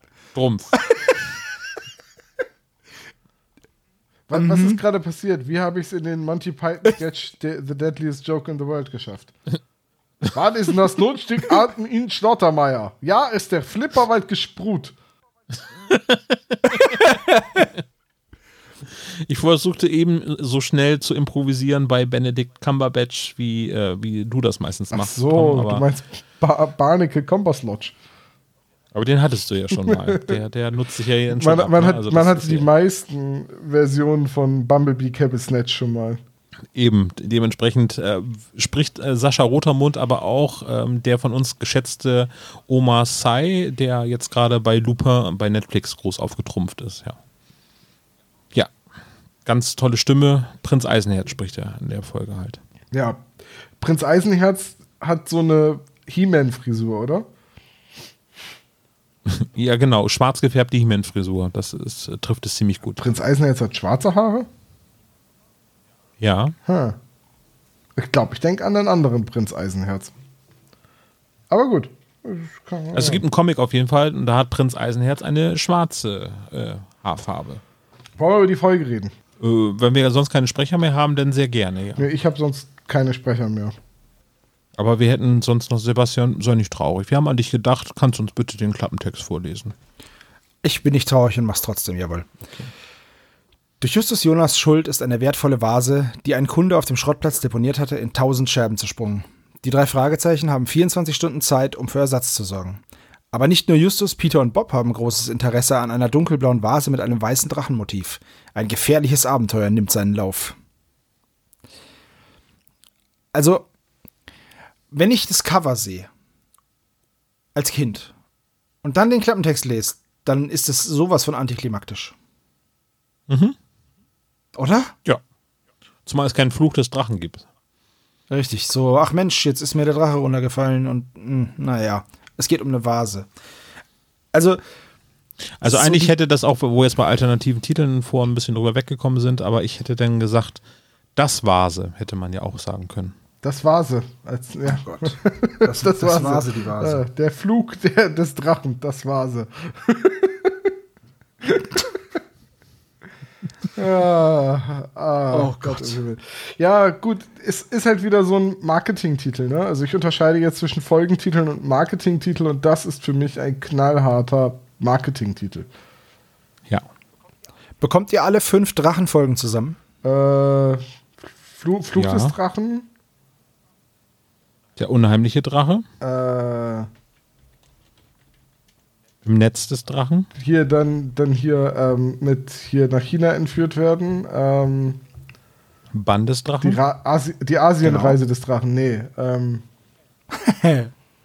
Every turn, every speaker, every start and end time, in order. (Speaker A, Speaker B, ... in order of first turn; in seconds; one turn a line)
Speaker A: 0.3-0.8
Speaker B: 0.9-1.2
Speaker C: 4.3-9.3
Speaker B: 4.3-4.8
Speaker C: 10.3-15.0
Speaker A: 15.9-17.2
Speaker A: 18.9-25.9
Speaker C: 24.9-27.9
Speaker A: 28.9-32.7
Speaker C: 29.9-30.4
Speaker C: 31.3-36.2
Speaker A: 36.8-47.2
Speaker A: 49.5-52.6
Speaker C: 52.9-53.2
Speaker C: 53.8-57.3
Speaker A: 59.3-63.0
Speaker C: 63.0-64.5
Speaker A: 66.2-66.5
Speaker C: 66.7-67.0
Speaker C: 68.0-70.1
Speaker C: 71.5-73.2
Speaker A: 72.9-77.6
Speaker C: 78.2-79.1
Speaker A: 79.4-82.1
Speaker C: 82.0-83.8
Speaker A: 84.8-89.8
Speaker B: 90.6-92.3
Speaker B: 93.8-102.8
Speaker B: 103.3-110.6
Speaker B: 113.3-113.7
Speaker B: 114.9-116.1
Speaker B: 117.5-118.1
Speaker B: 118.8-122.2
Speaker A: 123.3-123.6
Speaker B: 124.6-124.9
Speaker A: 126.1-127.5
Speaker B: 128.3-133.3
Speaker B: 134.3-134.6
Speaker A: 135.6-140.6
Speaker B: 135.7-136.1
Speaker A: 141.2-143.1
Speaker C: 143.4-150.7
Speaker B: 144.8-147.0
Speaker C: 151.4-152.0
Speaker C: 153.8-165.7
Speaker B: 155.3-156.0
Speaker B: 167.8-169.8
Speaker C: 170.0-170.8
Speaker C: 171.4-172.9
Speaker A: 171.9-172.3
Speaker A: 174.8-175.8
Speaker C: 176.0-176.9
Speaker A: 179.2-180.3
Speaker C: 180.4-185.0
Speaker A: 185.9-186.8
Speaker C: 186.6-189.7
Speaker B: 187.8-188.2
Speaker B: 190.3-190.9